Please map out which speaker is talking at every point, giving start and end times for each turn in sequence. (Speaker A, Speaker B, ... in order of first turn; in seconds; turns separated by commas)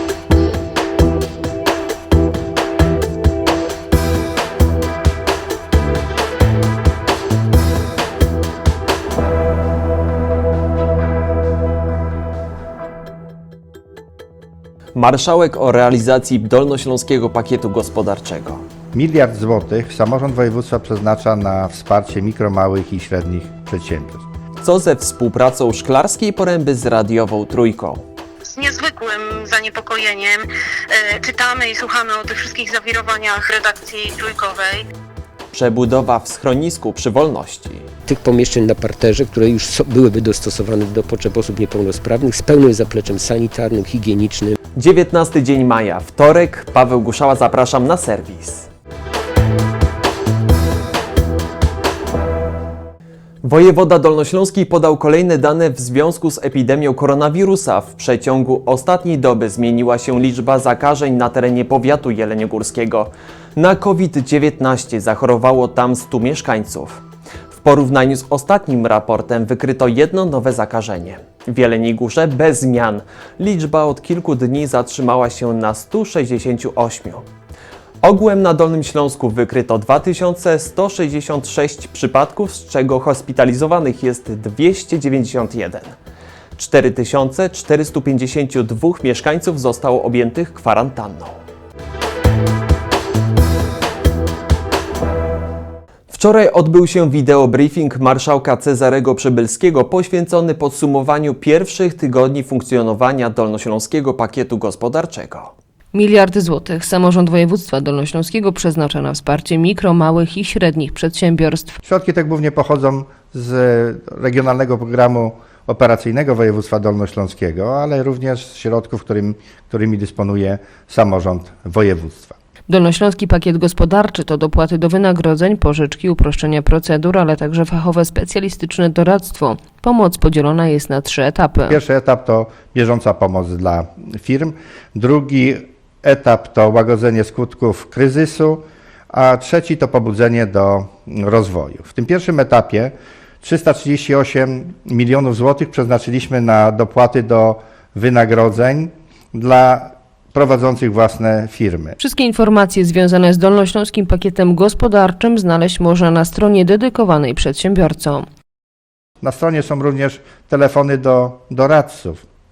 Speaker A: 14.9-18.6, Speaker B: 18.9-24.3, Speaker A: 24.6-28.0, Speaker C: 28.5-34.9, Speaker A: 35.5-37.9, Speaker D: 38.1-44.6, Speaker A: 44.8-48.7, Speaker A: 53.4-67.0, Speaker A: 67.5-77.3, Speaker A: 78.0-86.0, Speaker A: 86.6-91.4, Speaker A: 96.1-105.5, Speaker E: 105.9-111.8, Speaker B: 111.8-122.4, Speaker E: 122.7-131.8, Speaker B: 131.7-152.0, Speaker E: 152.0-158.3, Speaker B: 159.2-162.2